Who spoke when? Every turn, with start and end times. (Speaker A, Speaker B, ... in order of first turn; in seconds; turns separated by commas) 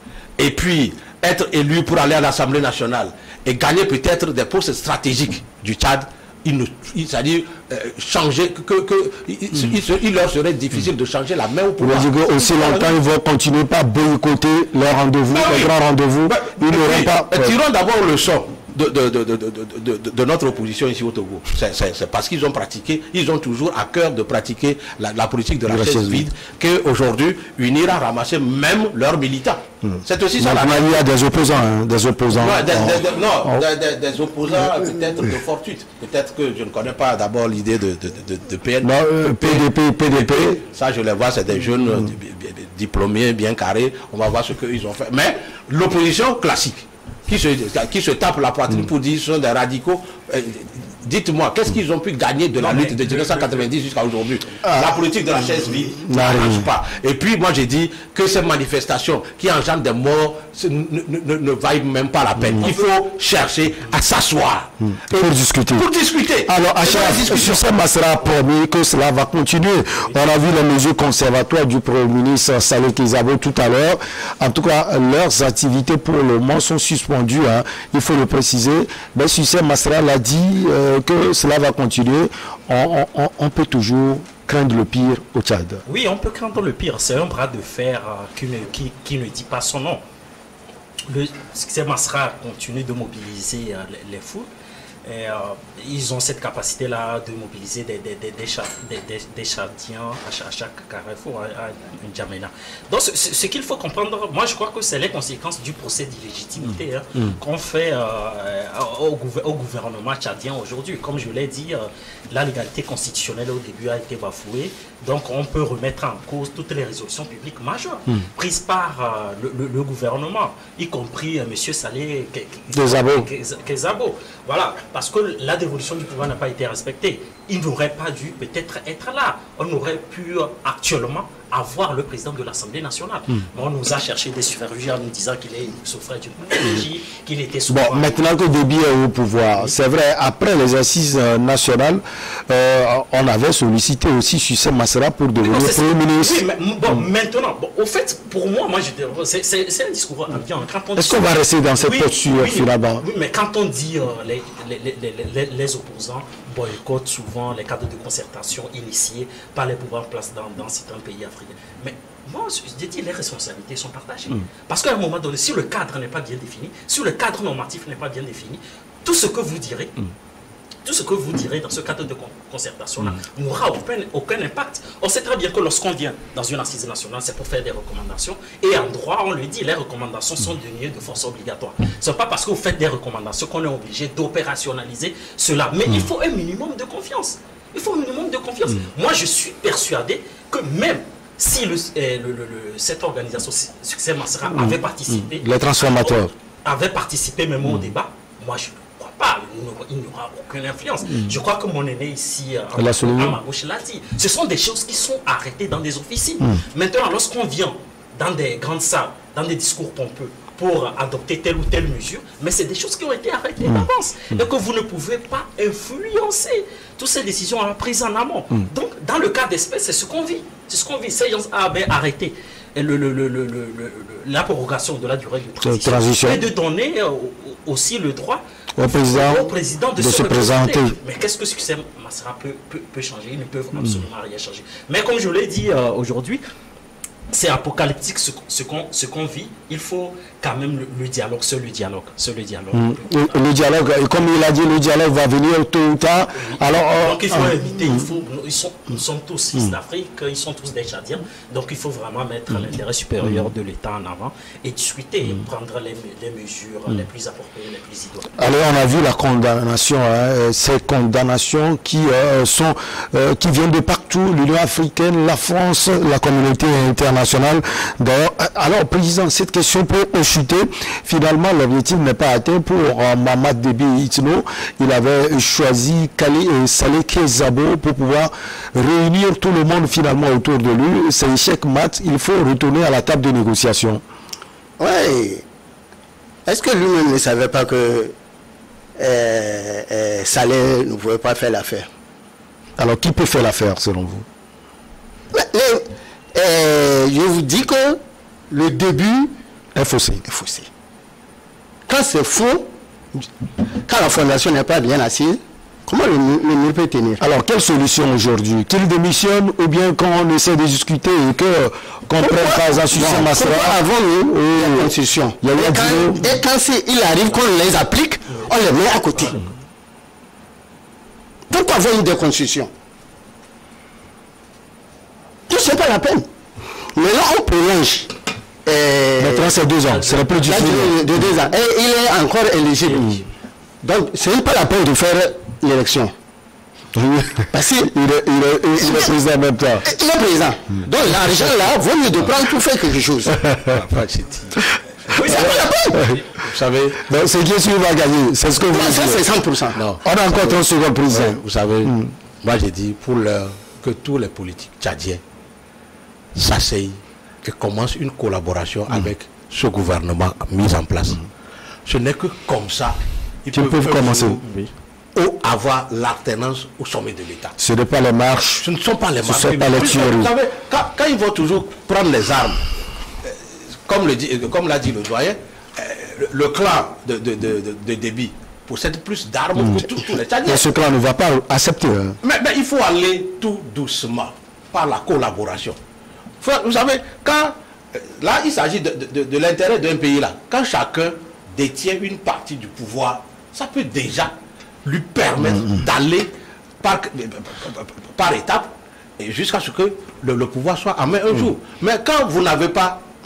Speaker A: 0.4-13.0, Speaker B: 11.8-17.5, Speaker A: 15.3-15.7, Speaker A: 16.3-31.1, Speaker B: 25.7-26.3, Speaker B: 29.8-33.6, Speaker A: 32.3-67.7, Speaker B: 38.8-40.6, Speaker C: 52.6-53.6, Speaker B: 54.6-55.0, Speaker B: 55.9-56.7, Speaker B: 65.1-65.9, Speaker B: 66.5-85.8, Speaker C: 85.8-90.0, Speaker C: 91.1-94.5, Speaker C: 95.0-138.2, Speaker B: 122.7-123.3, Speaker B: 137.7-146.4, Speaker C: 145.4-170.0, Speaker B: 151.0-153.0, Speaker C: 170.8-236.4, Speaker B: 194.5-196.3, Speaker B: 202.8-203.4, Speaker B: 225.6-226.4, Speaker B: 228.8-230.9, Speaker C: 237.3-243.4, Speaker B: 242.7-247.6, Speaker C: 246.3-258.3, Speaker B: 258.4-284.0, Speaker D: 284.8-285.4, Speaker D: 286.4-288.1, Speaker D: 289.0-291.9, Speaker B: 292.8-294.3, Speaker D: 295.3-298.0, Speaker D: 298.5-299.3, Speaker B: 299.8-300.2, Speaker D: 300.2-300.7, Speaker D: 301.9-307.2, Speaker B: 307.2-316.4, Speaker D: 312.2-319.4, Speaker D: 321.5-322.7, Speaker D: 325.5-326.3, Speaker D: 326.9-328.1, Speaker D: 328.6-329.6, Speaker B: 329.2-331.1, Speaker C: 329.9-330.8, Speaker D: 330.4-333.1, Speaker B: 332.9-333.2, Speaker D: 333.8-336.1, Speaker B: 336.9-339.9, Speaker D: 337.4-337.9, Speaker D: 338.8-339.1, Speaker D: 339.8-343.4, Speaker A: 343.5-344.7, Speaker C: 345.1-346.2, Speaker D: 345.2-346.0, Speaker B: 345.3-346.2, Speaker A: 346.3-347.1, Speaker B: 347.0-349.2, Speaker D: 348.6-349.8, Speaker A: 349.7-355.2, Speaker B: 350.0-352.1, Speaker A: 356.3-361.2, Speaker A: 361.9-364.6, Speaker B: 363.5-364.4, Speaker A: 365.1-367.6, Speaker B: 367.6-368.6, Speaker A: 368.6-372.6, Speaker B: 369.2-370.3, Speaker A: 373.2-380.7, Speaker B: 380.4-382.2, Speaker A: 382.2-385.8, Speaker A: 386.4-396.3, Speaker A: 396.8-403.0